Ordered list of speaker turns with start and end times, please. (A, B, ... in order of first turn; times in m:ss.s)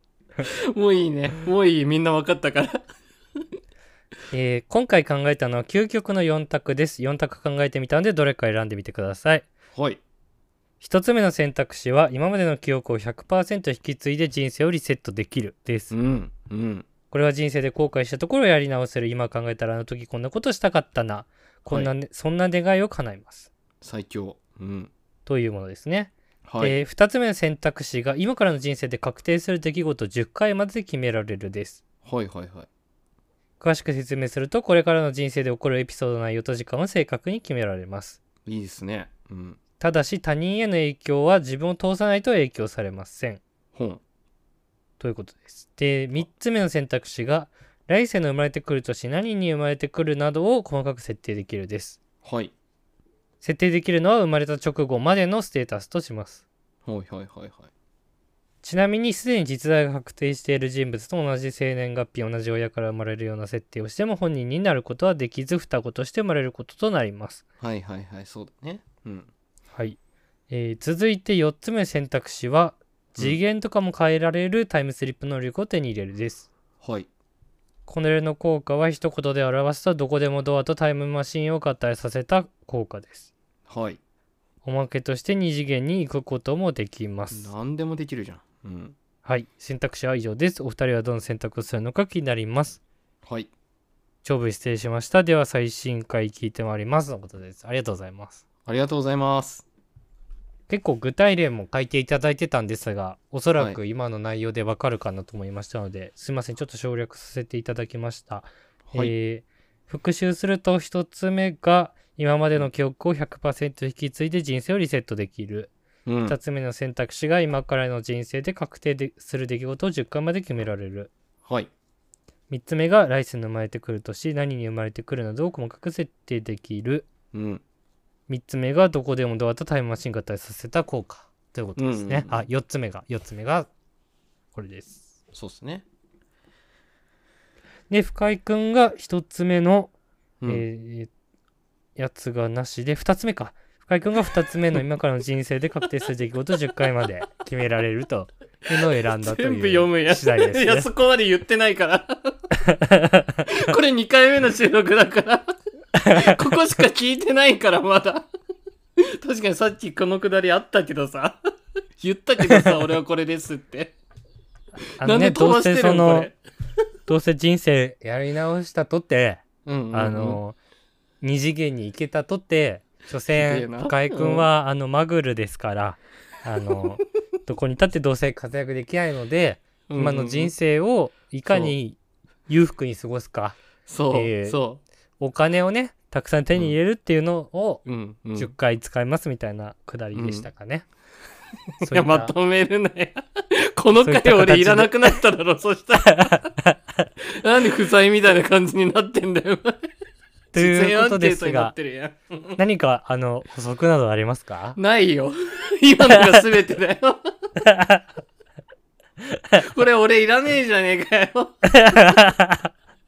0:00.4-0:02.8 A
0:04.3-0:09.5 B
0:09.7-0:10.0 A
0:10.8-0:15.9 B
0:15.9-0:16.9 A
0:17.1-0:23.5 B
0:23.8-0:24.9 A
0:25.2-0:31.8 B
0:26.4-0:26.8 A
0:32.0-0:32.7 A
0:33.6-0:38.2 B
0:38.4-0:39.6 A
0:39.8-0:43.4 B
0:43.7-0:44.0 A
0:45.0-0:52.0 B
0:52.2-0:52.5 A
0:53.4-0:56.4 B
0:56.8-0:57.7 A
0:58.6-1:07.4 B
1:07.6-1:09.3 A
1:10.5-1:16.5 B
1:16.8-1:17.1 A
1:17.9-1:23.3 B
1:23.7-1:24.0 A
1:24.6-1:27.5 B
1:27.3-1:28.9 A
1:29.2-1:32.8 B
1:33.2-1:33.5 A
1:34.2-1:38.4 B
1:38.6-1:39.6 A
1:40.7-1:55.7 B
1:48.9-1:49.1 A
1:56.0-1:56.4 A
1:56.3-2:01.1 B
2:01.4-2:01.7 A
2:02.5-2:07.1 B
2:07.3-2:07.6 A
2:08.3-2:13.7 B
2:11.8-2:12.4 A
2:14.5-2:15.0 B
2:15.3-2:15.8 A
2:17.9-2:19.9 B
2:20.5-2:21.1 B
2:22.0-2:30.9 B
2:29.2-2:32.4 A
2:32.7-2:33.2 B
2:33.4-2:35.5 A
2:36.0-2:36.4 B
2:36.0-2:38.3 A
2:39.0-2:41.4 A
2:42.0-2:43.9 A
2:45.0-2:46.3 B
2:45.0-2:46.3 A
2:47.1-2:50.6 B
2:49.6-2:50.4 A
2:51.2-3:02.0 B
2:53.3-2:54.5 A
2:59.9-3:00.5 A
3:01.5-3:01.7 A
3:02.5-3:03.6 B
3:03.9-3:04.8 A
3:04.1-3:04.6 B
3:05.2-3:07.8 B
3:07.8-3:08.5 A
3:08.4-3:10.8 B
3:10.1-3:10.5 A
3:11.8-3:16.4 A
3:11.8-3:12.3 B
3:13.9-3:15.1 B
3:16.0-3:16.8 B
3:17.3-3:19.8 A
3:20.5-3:21.7 B
3:20.5-3:22.6 A
3:22.6-3:24.8 B
3:24.8-3:27.2 A
3:27.6-3:28.0 B
3:29.5-3:31.6 A
3:31.8-3:32.6 B